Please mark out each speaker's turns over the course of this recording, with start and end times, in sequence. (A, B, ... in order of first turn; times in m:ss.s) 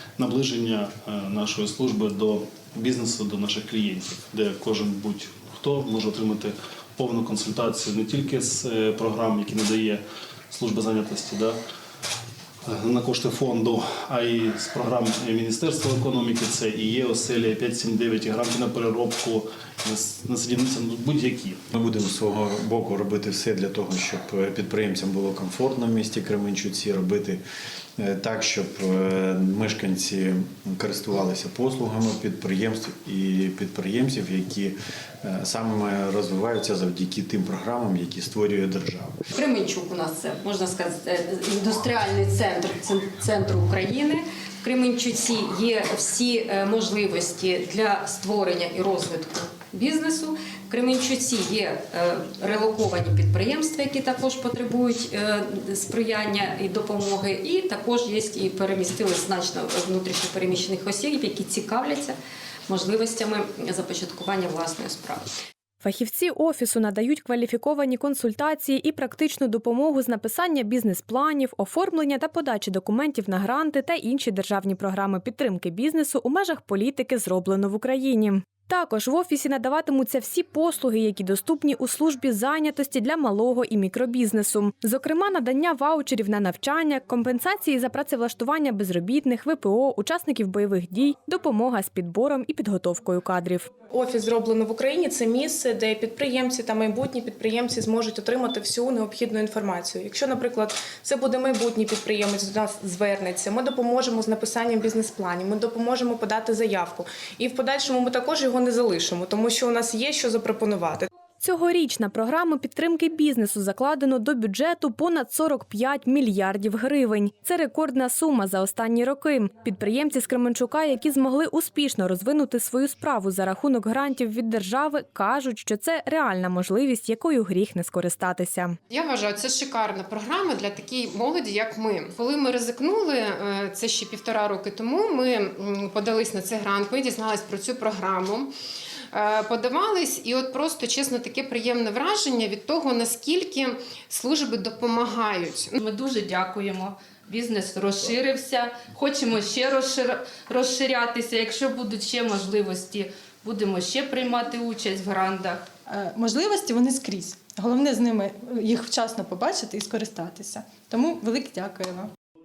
0:00.2-0:11.6 A
0:12.6-0:21.6 A
0:21.7-0:27.4 B
0:28.0-0:39.2 B
0:39.3-1:02.2 C
1:02.7-1:05.3 C
1:05.8-1:33.7 D
1:33.9-1:51.1 E
1:51.4-2:08.8 D
2:08.9-2:18.5 F
2:19.1-2:25.7 F
2:25.8-2:35.7 G
2:35.9-2:42.1 H